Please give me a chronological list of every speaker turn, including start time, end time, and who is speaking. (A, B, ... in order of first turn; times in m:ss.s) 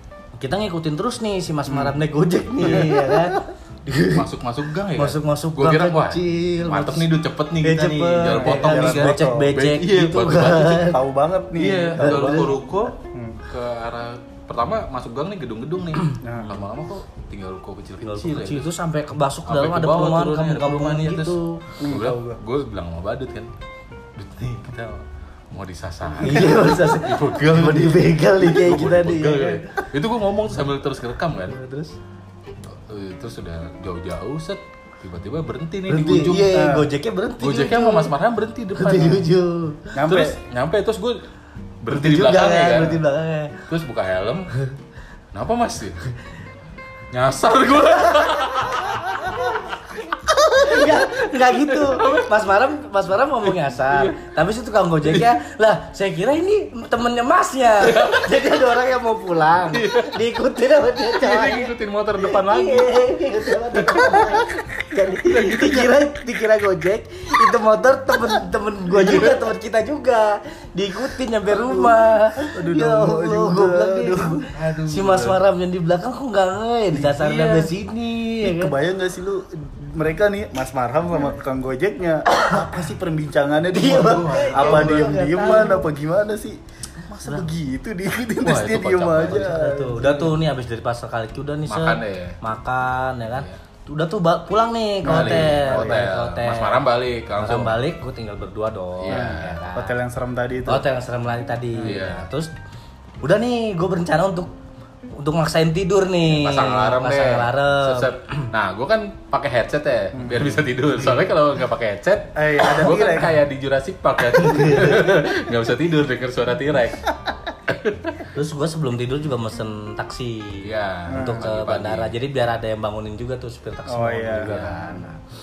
0:00.4-0:04.2 A
0:01.7-0:02.0 B
0:02.6-0:02.9 C
0:02.6-0:03.4 B
0:04.0-0:11.0 C
0:04.9-0:07.1 A
0:07.6-0:11.0 A
0:08.3-0:09.5 B
0:10.8-0:13.4 B
0:11.6-0:18.7 C
0:12.0-0:12.6 A
0:16.2-0:16.6 B
0:18.0-0:21.6 A
0:19.5-0:23.5 C
0:21.8-0:22.4 B
0:24.2-0:31.6 C
0:26.2-0:29.8 A
0:31.4-0:31.9 A
0:32.6-0:36.6 C
0:35.9-0:38.1 A
0:36.5-0:36.9 B
0:37.4-0:39.3 C
0:38.7-0:39.9 A
0:39.9-0:40.4 B
0:40.0-0:41.2 C
0:41.8-0:43.0 C
0:41.9-0:43.6 A
0:43.7-0:44.5 C
0:45.3-0:46.0 C
0:47.1-0:52.3 C
0:47.9-0:49.8 A
0:50.4-1:18.7 A
0:53.4-0:54.2 C
0:55.0-0:55.3 C
0:57.8-0:58.5 C
0:59.7-1:00.2 C
1:01.1-1:03.1 C
1:03.7-1:04.4 C
1:05.1-1:06.1 C
1:08.9-1:09.4 C
1:11.5-1:12.0 B
1:12.5-1:14.4 B
1:14.5-1:15.4 C
1:17.0-1:17.7 C
1:18.4-1:30.4 B
1:22.3-1:22.7 A
1:23.7-1:25.9 A
1:23.8-1:25.8 C
1:28.4-1:29.5 C
1:29.2-1:36.8 A
1:31.7-1:32.4 C
1:33.3-1:33.6 C
1:35.0-1:36.1 B
1:35.0-1:37.8 C
1:37.4-1:40.0 A
1:39.0-1:39.6 C
1:39.1-1:40.8 B
1:40.6-1:42.5 A
1:41.8-1:42.3 C
1:43.2-1:44.5 A
1:45.1-1:48.5 A
1:46.2-1:57.1 C
1:50.1-1:50.6 B
1:52.3-1:53.4 B
1:54.3-1:55.0 A
1:57.7-1:58.2 C
1:58.3-2:05.2 A
2:00.6-2:02.1 C
2:01.1-2:01.4 B
2:03.9-2:04.8 B
2:04.4-2:05.0 C